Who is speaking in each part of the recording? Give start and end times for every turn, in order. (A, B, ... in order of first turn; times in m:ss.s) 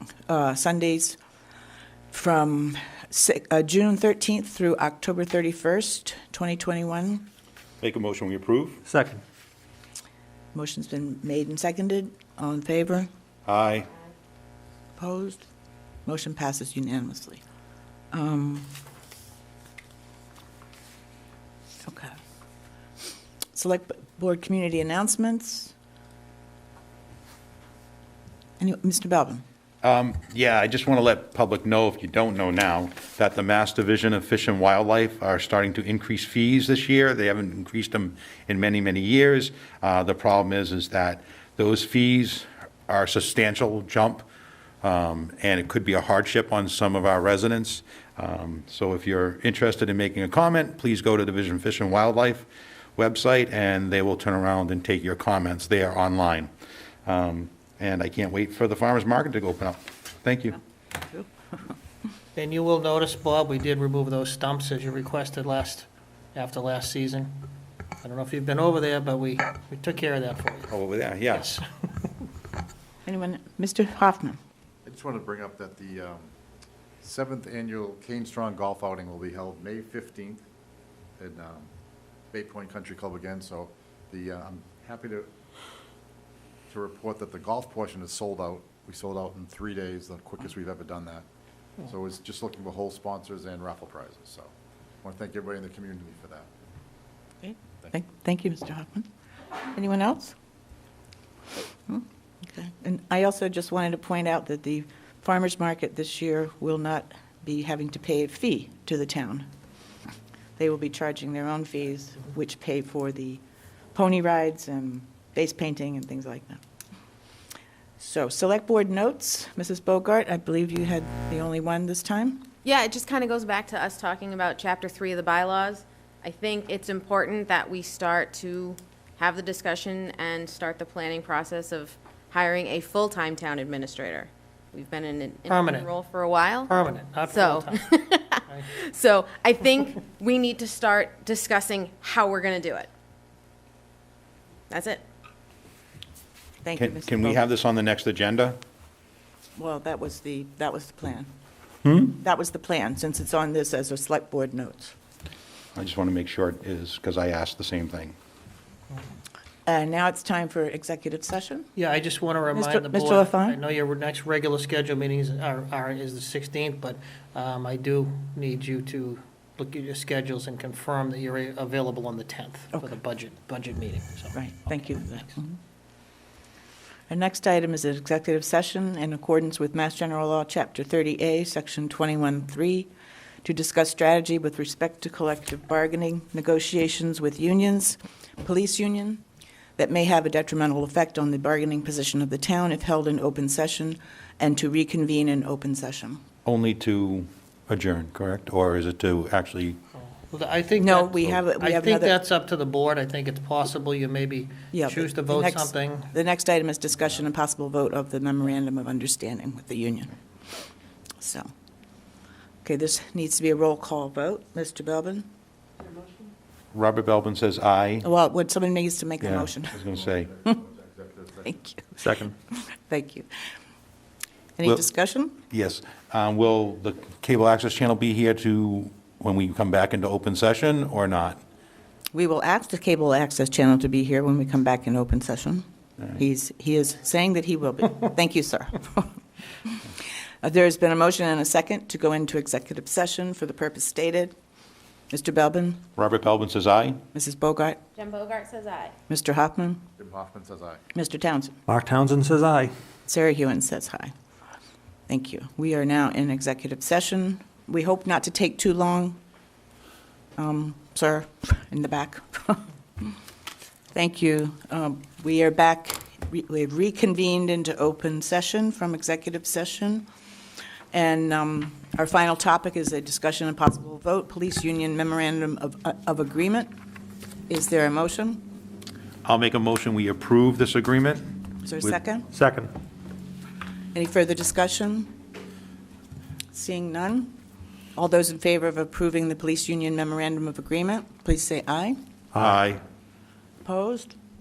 0:00.3-0:01.2 A
0:02.1-0:07.2 A
0:07.8-0:08.8 B
0:08.9-0:09.2 C
0:10.5-0:13.1 A
0:13.4-0:13.9 B
0:15.0-0:15.4 A
0:16.0-0:17.4 A
0:18.1-0:18.7 A
0:21.8-0:22.2 A
0:23.5-0:25.7 A
0:28.6-0:29.4 A
0:29.8-0:44.3 B
0:44.8-0:56.5 B
0:57.0-1:00.6 B
1:02.4-1:07.5 D
1:08.0-1:10.7 D
1:10.7-1:11.6 B
1:11.3-1:11.6 D
1:13.0-1:14.4 A
1:14.8-1:16.3 E
1:17.0-1:20.4 E
1:21.2-1:21.7 E
1:22.3-1:25.3 E
1:26.7-1:31.3 E
1:31.8-1:34.5 E
1:35.0-1:36.5 E
1:37.4-1:39.1 A
1:39.7-1:40.4 A
1:41.9-1:49.5 A
1:50.6-1:53.4 A
1:53.9-1:56.6 A
1:58.0-2:02.5 A
2:02.6-2:16.7 F
2:15.5-2:15.9 D
2:16.7-2:17.9 D
2:17.3-2:22.9 F
2:24.7-2:25.0 F
2:26.6-2:27.4 A
2:26.8-2:28.6 B
2:29.6-2:31.3 A
2:32.0-2:35.0 A
2:35.8-2:38.2 B
2:39.7-2:41.7 A
2:41.8-2:55.0 D
2:42.5-2:43.6 A
2:54.3-2:55.6 A
2:57.1-3:02.9 A
3:03.4-3:09.2 A
3:09.8-3:16.2 A
3:16.4-3:19.8 B
3:20.3-3:26.1 D
3:20.8-3:22.2 A
3:24.7-3:30.1 A
3:31.2-3:31.5 A
3:32.6-3:35.3 A
3:36.7-3:38.1 B
3:38.0-3:39.8 A
3:39.2-3:40.3 B
3:40.6-3:41.5 E
3:41.4-3:41.9 A
3:42.0-3:42.3 C
3:42.5-3:43.3 A
3:44.6-3:45.4 A
3:45.5-3:51.4 B
3:52.1-3:59.8 A
4:00.4-4:04.3 A
4:05.1-4:05.8 A
4:06.0-4:07.0 B
4:07.1-4:07.8 A
4:08.0-4:09.0 F
4:09.1-4:09.8 A
4:10.0-4:10.8 E
4:10.9-4:11.6 A
4:11.7-4:12.7 C
4:13.1-4:14.1 A
4:15.1-4:19.2 A
4:20.4-4:23.2 A
4:23.9-4:30.1 A
4:30.9-4:36.7 A
4:37.5-4:38.4 A
4:39.2-4:41.3 B
4:41.6-4:42.3 A
4:42.3-4:42.7 C
4:43.9-4:45.1 A
4:46.5-4:47.3 A
4:47.9-4:52.0 A
4:52.4-4:52.8 B
4:53.6-4:54.2 A